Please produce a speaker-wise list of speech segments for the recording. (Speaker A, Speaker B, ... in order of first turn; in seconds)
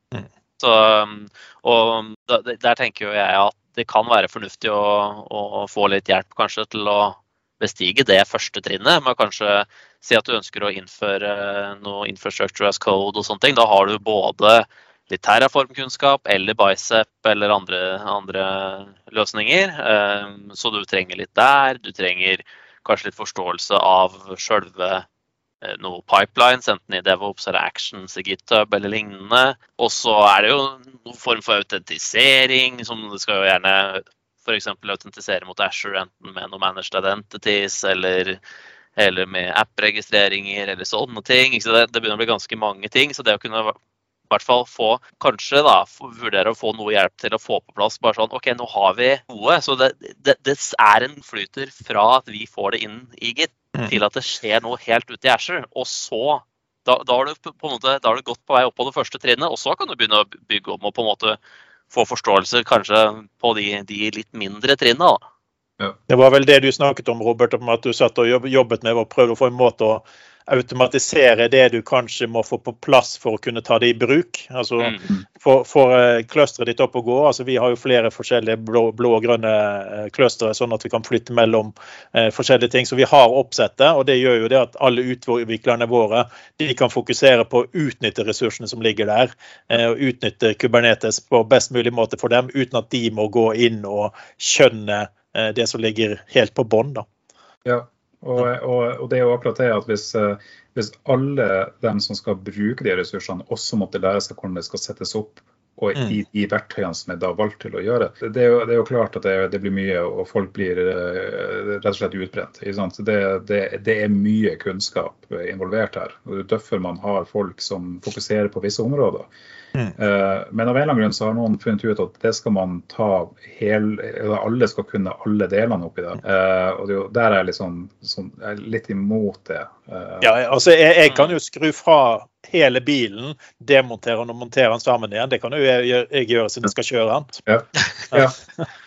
Speaker A: 0.6-25.0, 25.6-38.4, 39.0-43.8, 44.3-61.4, 61.9-65.2, 74.8-75.1, 131.1-131.4
Speaker B: 66.1-97.0, 130.2-137.4
Speaker C: 97.6-119.3, 120.0-130.4, 137.5-138.3